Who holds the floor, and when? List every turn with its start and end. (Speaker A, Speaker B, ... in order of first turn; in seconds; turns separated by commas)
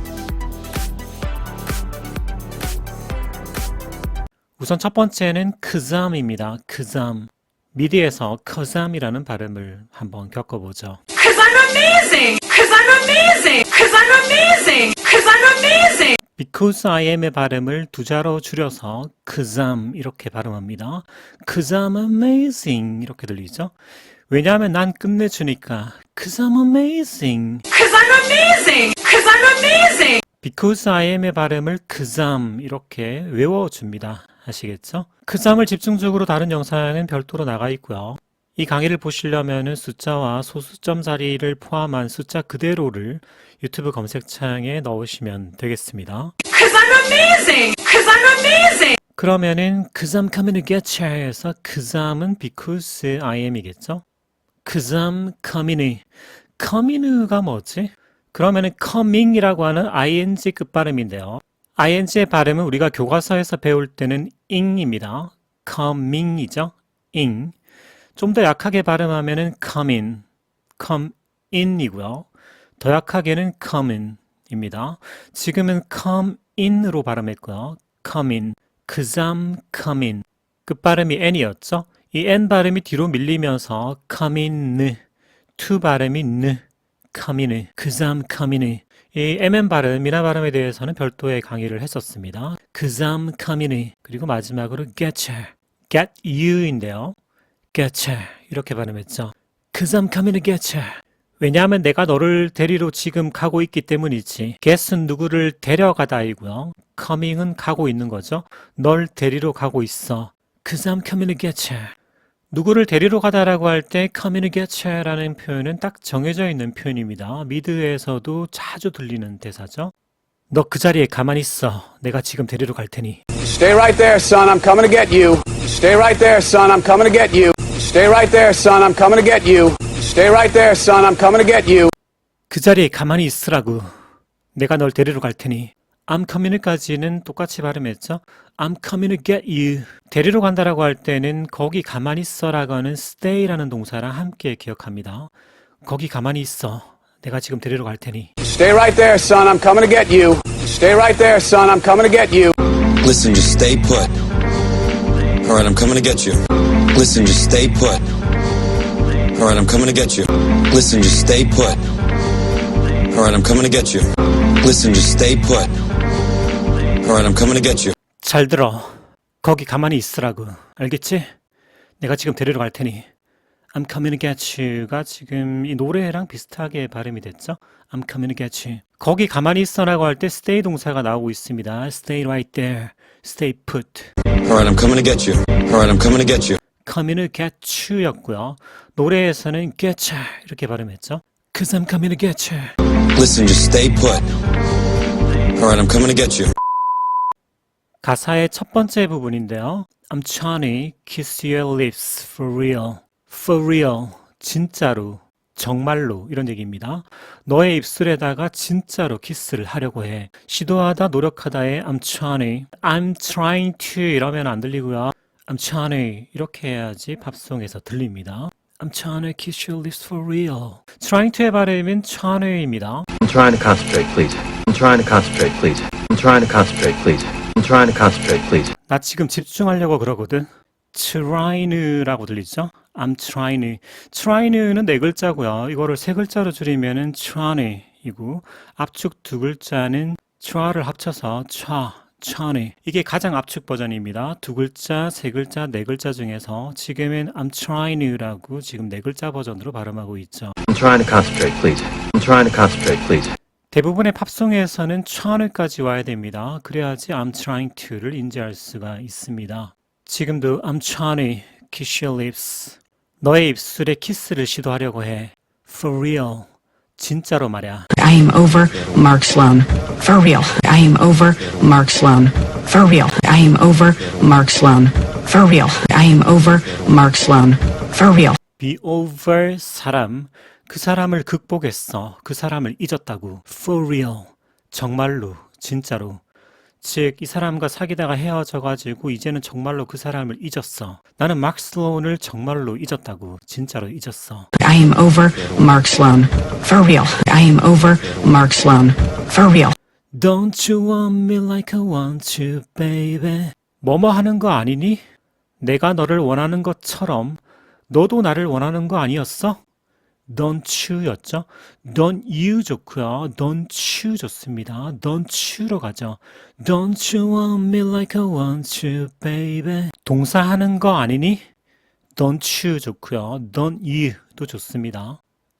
Speaker A: 4.6-11.5, Speaker B: 11.2-16.2, Speaker A: 16.1-23.7, Speaker A: 24.3-28.0, Speaker B: 27.8-30.2, Speaker A: 30.4-46.4, Speaker B: 46.5-49.0, Speaker A: 49.1-54.0, Speaker A: 54.6-56.1, Speaker A: 56.6-67.5, Speaker A: 68.2-70.2, Speaker A: 70.8-72.3, Speaker A: 72.8-85.0, Speaker A: 85.6-86.6, Speaker A: 87.1-97.2, Speaker A: 97.7-112.0, Speaker A: 112.5-119.9, Speaker A: 120.5-123.2, Speaker C: 123.4-131.9, Speaker A: 132.5-134.0, Speaker A: 134.5-145.3, Speaker A: 145.8-148.3, Speaker C: 148.4-151.8, Speaker D: 153.0-154.1, Speaker D: 155.4-158.1, Speaker D: 159.3-161.8, Speaker D: 163.1-165.7, Speaker D: 167.0-167.9, Speaker A: 168.2-171.3, Speaker A: 172.0-173.1, Speaker A: 173.7-184.1, Speaker D: 184.4-186.6, Speaker A: 186.8-192.8, Speaker D: 193.2-194.3, Speaker D: 195.6-196.5, Speaker A: 198.0-223.1, Speaker E: 223.2-228.6, Speaker F: 224.3-224.6, Speaker F: 225.6-225.9, Speaker A: 228.8-250.6, Speaker E: 250.7-253.3, Speaker A: 253.7-267.9, Speaker F: 267.9-278.4, Speaker A: 278.6-286.2, Speaker A: 286.8-294.5, Speaker F: 294.6-299.8, Speaker A: 300.1-305.0, Speaker A: 305.6-309.6, Speaker A: 310.3-321.4, Speaker A: 322.2-325.2